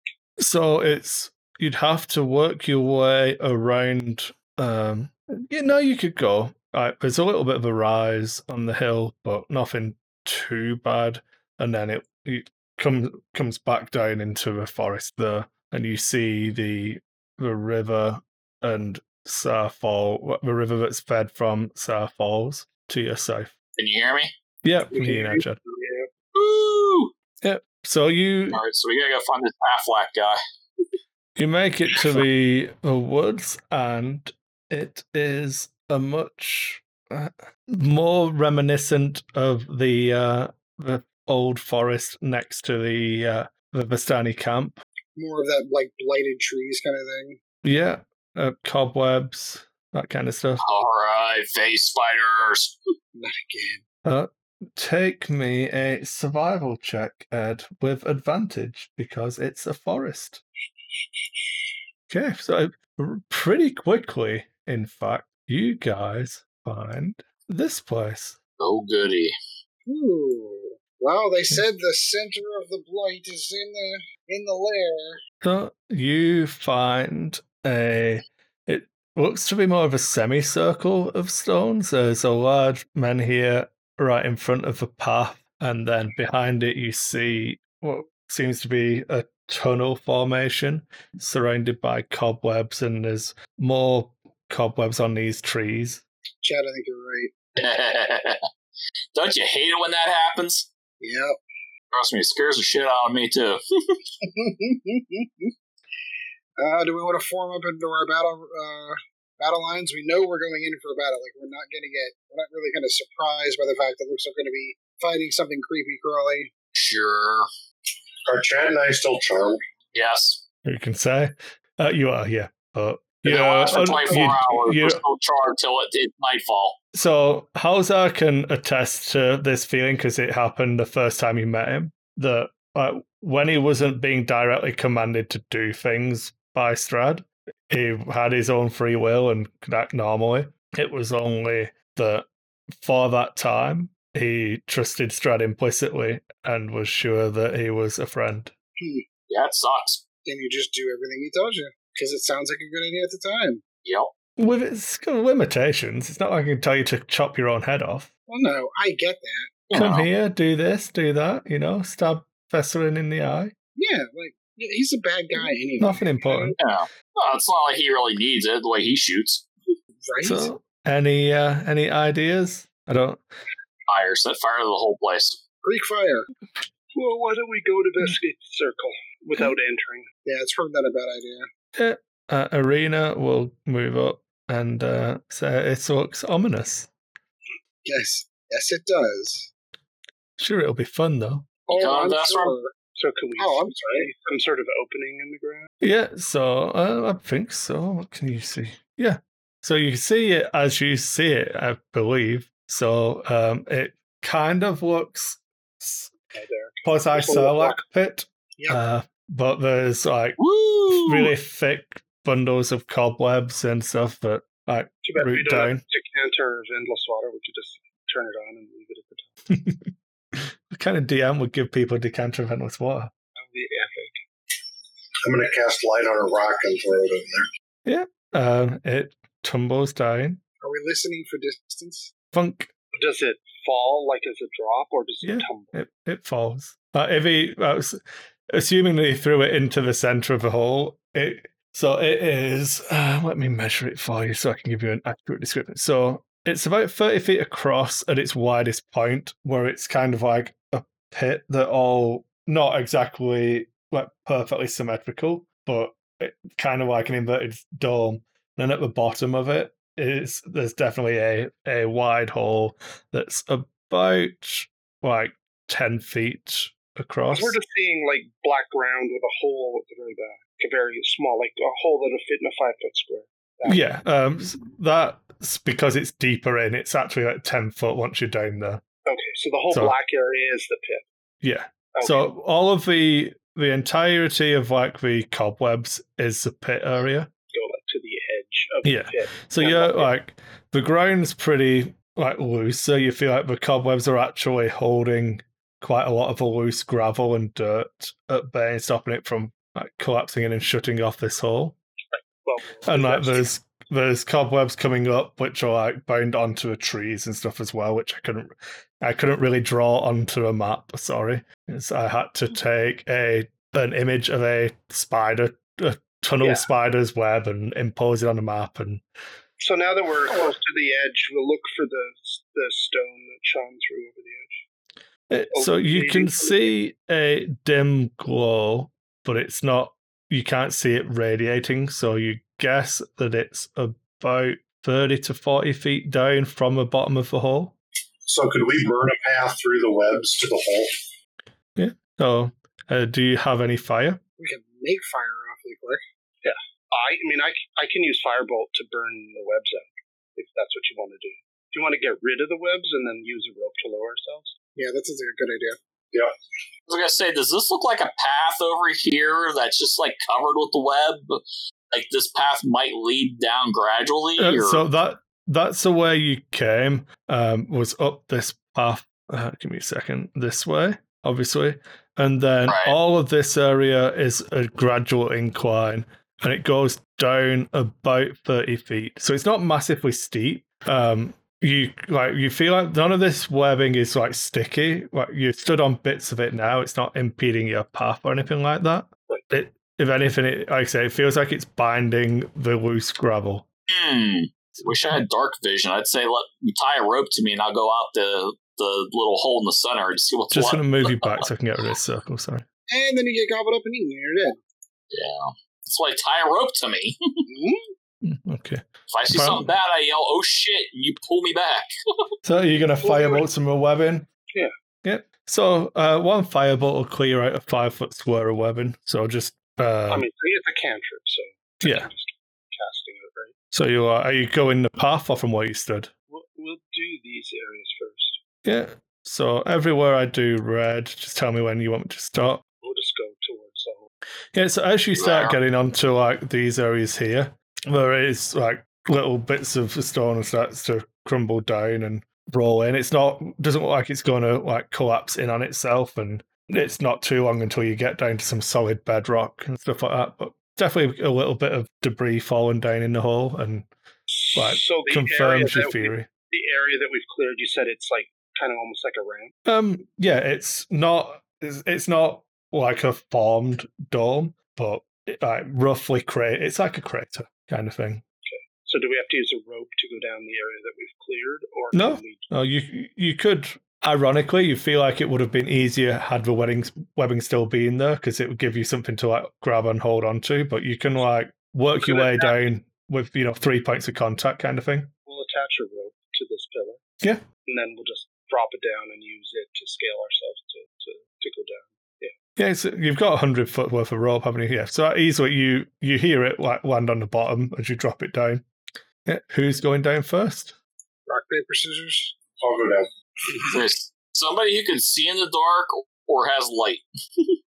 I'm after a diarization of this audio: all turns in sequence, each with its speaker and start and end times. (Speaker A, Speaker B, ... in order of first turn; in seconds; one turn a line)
Speaker A: 0.4-23.5
Speaker B: 23.8-24.3
Speaker A: 24.6-25.6
Speaker C: 24.9-26.1
Speaker B: 26.3-27.1
Speaker A: 27.4-28.6
Speaker B: 28.5-30.4
Speaker A: 31.4-44.8
Speaker D: 45.2-47.4
Speaker A: 47.6-50.6
Speaker B: 50.6-52.8
Speaker D: 53.1-53.8
Speaker A: 54.0-60.4
Speaker A: 62.1-68.4
Speaker B: 68.6-69.3
Speaker D: 69.8-75.2
Speaker A: 75.4-96.0
Speaker D: 96.4-97.3
Speaker B: 97.6-98.4
Speaker B: 99.1-100.7
Speaker D: 101.0-101.4
Speaker B: 101.9-104.0
Speaker D: 104.2-105.5
Speaker D: 106.6-116.5
Speaker B: 116.7-117.5
Speaker E: 118.3-119.6
Speaker B: 119.9-120.4
Speaker A: 120.6-125.0
Speaker B: 123.2-126.8
Speaker A: 126.9-148.5
Speaker D: 148.8-149.0
Speaker B: 149.3-150.0
Speaker D: 150.2-153.6
Speaker B: 153.8-154.1
Speaker A: 154.4-158.1
Speaker D: 158.3-159.5
Speaker B: 159.7-160.1
Speaker A: 159.7-163.5
Speaker D: 163.8-166.6
Speaker A: 165.8-166.6
Speaker B: 166.6-169.5
Speaker D: 170.0-170.5
Speaker A: 170.2-173.2
Speaker B: 173.9-175.4
Speaker D: 175.6-176.3
Speaker C: 176.9-180.1
Speaker D: 180.2-181.5
Speaker A: 181.8-186.9
Speaker D: 187.8-189.5
Speaker A: 190.4-191.5
Speaker D: 191.7-192.7
Speaker B: 191.7-192.6
Speaker C: 192.9-195.7
Speaker D: 193.4-194.1
Speaker A: 195.8-206.1
Speaker C: 206.3-207.8
Speaker A: 206.8-210.4
Speaker B: 210.4-211.3
Speaker A: 210.9-215.8
Speaker C: 215.0-219.3
Speaker A: 219.5-223.1
Speaker C: 223.3-224.2
Speaker E: 225.2-227.5
Speaker A: 227.8-230.4
Speaker D: 230.6-232.1
Speaker A: 232.3-232.7
Speaker C: 232.9-235.7
Speaker A: 235.2-267.6
Speaker C: 267.3-273.8
Speaker A: 273.6-278.8
Speaker C: 279.1-281.0
Speaker A: 281.4-287.3
Speaker C: 281.9-282.3
Speaker C: 287.5-290.1
Speaker A: 288.8-301.8
Speaker C: 302.1-303.5
Speaker A: 302.9-319.0
Speaker C: 319.6-324.6
Speaker A: 325.3-337.7
Speaker C: 325.5-326.7
Speaker E: 338.2-340.9
Speaker A: 341.8-344.2
Speaker D: 344.4-346.0
Speaker C: 346.4-354.5
Speaker D: 354.8-355.8
Speaker B: 356.9-361.4
Speaker B: 361.9-364.8
Speaker A: 364.4-393.6
Speaker B: 372.7-372.9
Speaker B: 393.9-401.4
Speaker A: 400.5-402.6
Speaker D: 402.9-404.6
Speaker B: 405.1-407.4
Speaker D: 407.5-407.9
Speaker A: 408.2-409.7
Speaker B: 409.1-411.9
Speaker A: 412.4-414.3
Speaker C: 413.0-413.4
Speaker A: 415.0-420.2
Speaker C: 420.1-423.5
Speaker A: 421.8-422.1
Speaker A: 423.7-426.1
Speaker C: 426.3-428.4
Speaker A: 428.6-432.6
Speaker C: 432.8-434.0
Speaker A: 434.5-453.9
Speaker B: 435.2-435.5
Speaker C: 454.3-459.5
Speaker A: 454.5-456.3
Speaker A: 459.6-468.2
Speaker C: 468.4-472.5
Speaker A: 471.9-485.1
Speaker C: 482.0-482.6
Speaker C: 485.2-487.0
Speaker C: 487.6-492.3
Speaker A: 492.6-498.6
Speaker A: 499.2-500.7
Speaker D: 501.3-502.3
Speaker E: 502.6-503.1
Speaker B: 503.6-507.4